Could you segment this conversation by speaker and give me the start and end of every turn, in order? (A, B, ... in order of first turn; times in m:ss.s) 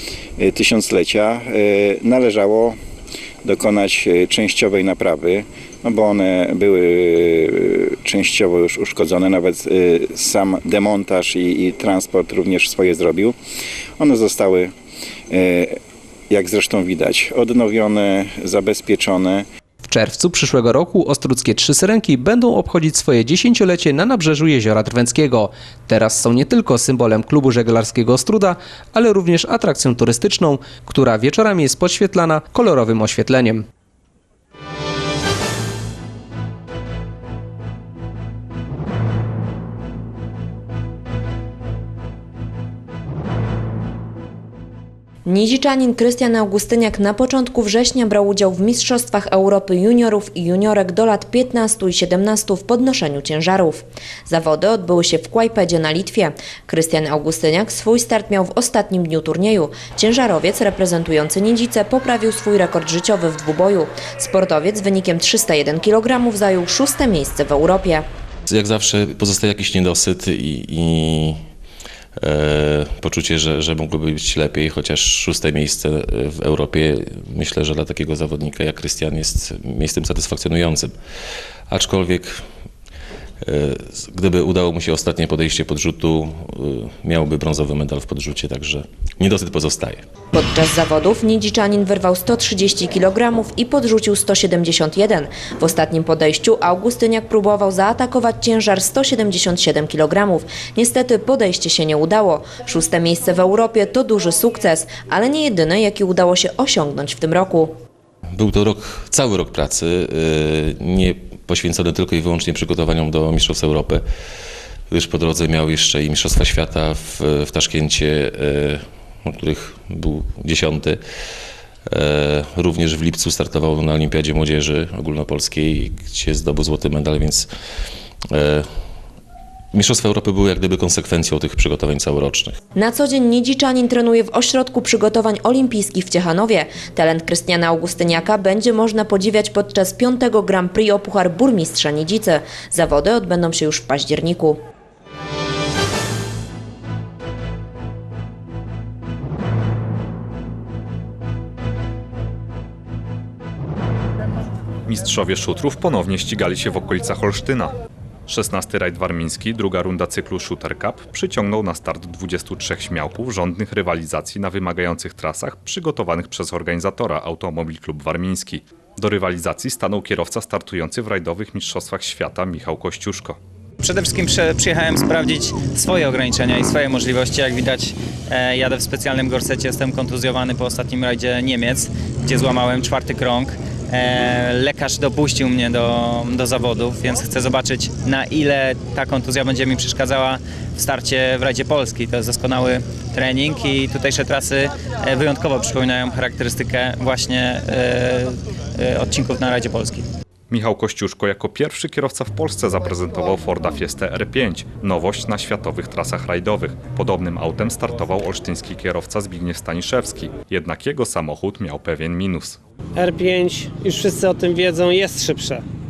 0:00.4-0:02.8 A
0:03.4-0:13.3 A
0:14.0-0:14.7 A
0:15.3-0:15.8 A
0:16.3-0:19.4 A
0:19.8-0:33.6 B
0:45.2-1:08.0 C
1:08.5-1:11.4 D
1:12.2-1:20.9 D
1:21.7-1:22.4 D
1:23.4-1:30.0 D
1:30.3-1:47.7 C
1:48.4-1:54.0 D
1:54.9-2:01.0 D
2:01.9-2:07.5 D
2:08.3-2:08.7 D
2:09.7-2:12.5 D
2:12.7-2:24.6 C
2:34.8-2:37.7 E
2:38.3-2:53.4 E
2:53.8-3:20.0 F
3:20.5-3:32.6 E
3:33.0-3:35.6 G